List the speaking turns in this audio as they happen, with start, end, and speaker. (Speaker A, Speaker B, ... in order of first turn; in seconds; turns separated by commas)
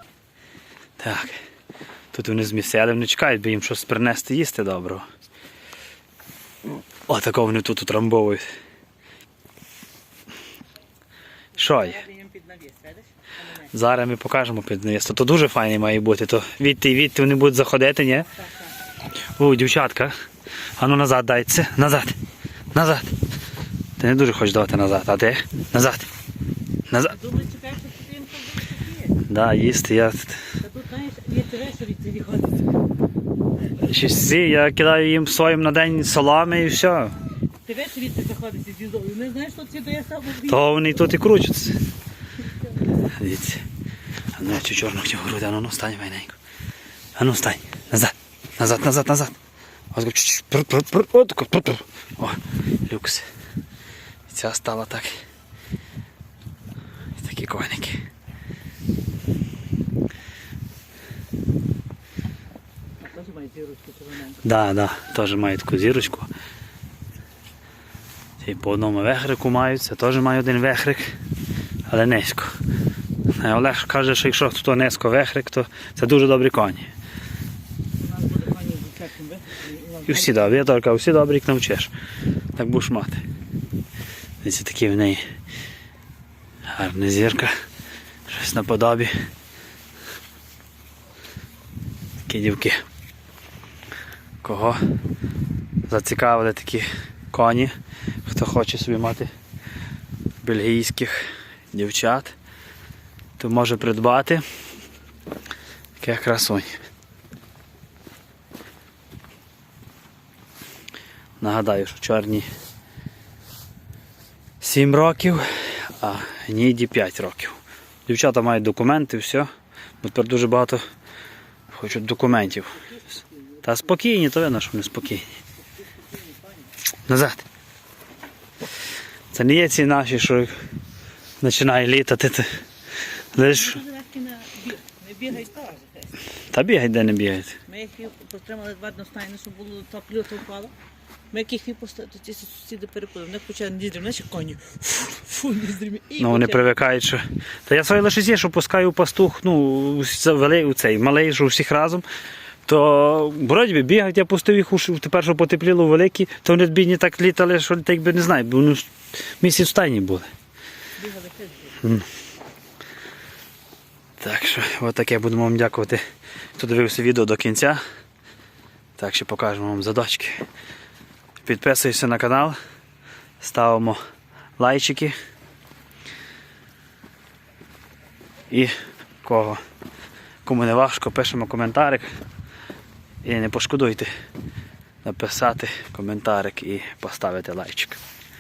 Speaker A: 1.0-1.4, Speaker A: 2.1-5.0, Speaker A: 7.1-8.4, Speaker A: 11.6-12.0, Speaker B: 11.6-13.7, Speaker A: 13.7-18.3, Speaker B: 18.3-18.7, Speaker A: 19.4-20.1, Speaker A: 20.8-22.1, Speaker A: 22.7-23.1, Speaker A: 24.0-26.1, Speaker A: 26.9-27.2, Speaker B: 27.1-29.2, Speaker A: 29.2-30.4, Speaker B: 30.6-32.7, Speaker A: 33.7-37.1, Speaker B: 37.6-40.6, Speaker A: 40.5-41.8, Speaker A: 42.9-43.6, Speaker A: 44.3-46.4, Speaker A: 47.1-49.3, Speaker A: 49.9-53.3, Speaker A: 54.3-55.1, Speaker A: 57.1-58.0, Speaker B: 63.0-64.4, Speaker A: 64.4-66.3, Speaker A: 68.4-71.1, Speaker A: 71.9-72.5, Speaker A: 73.3-76.9, Speaker B: 78.0-80.5, Speaker A: 80.0-81.9, Speaker A: 82.5-83.2, Speaker A: 84.4-85.2, Speaker A: 86.7-87.5, Speaker A: 88.3-89.1, Speaker A: 92.2-92.8, Speaker A: 94.4-94.8, Speaker A: 95.9-97.7, Speaker A: 98.2-99.3, Speaker A: 100.4-102.3, Speaker A: 103.4-104.4, Speaker A: 106.0-106.7, Speaker A: 111.4-112.5, Speaker A: 114.6-119.5, Speaker A: 120.0-120.8, Speaker A: 121.7-122.9, Speaker A: 123.6-125.3, Speaker B: 125.9-126.7, Speaker A: 127.1-127.4, Speaker A: 129.3-130.5, Speaker A: 131.4-132.5, Speaker A: 133.3-133.8, Speaker B: 133.5-136.2, Speaker A: 136.5-137.6, Speaker B: 137.7-140.7, Speaker B: 141.3-146.7, Speaker A: 146.2-152.1, Speaker A: 152.7-160.3, Speaker B: 161.0-161.8, Speaker A: 161.8-162.1, Speaker A: 164.2-166.0, Speaker A: 166.6-167.8, Speaker A: 169.0-170.4, Speaker A: 171.4-172.6, Speaker A: 173.4-174.0, Speaker A: 174.6-175.1, Speaker A: 178.5-179.6, Speaker A: 180.4-182.1, Speaker A: 183.2-184.1, Speaker A: 185.0-188.0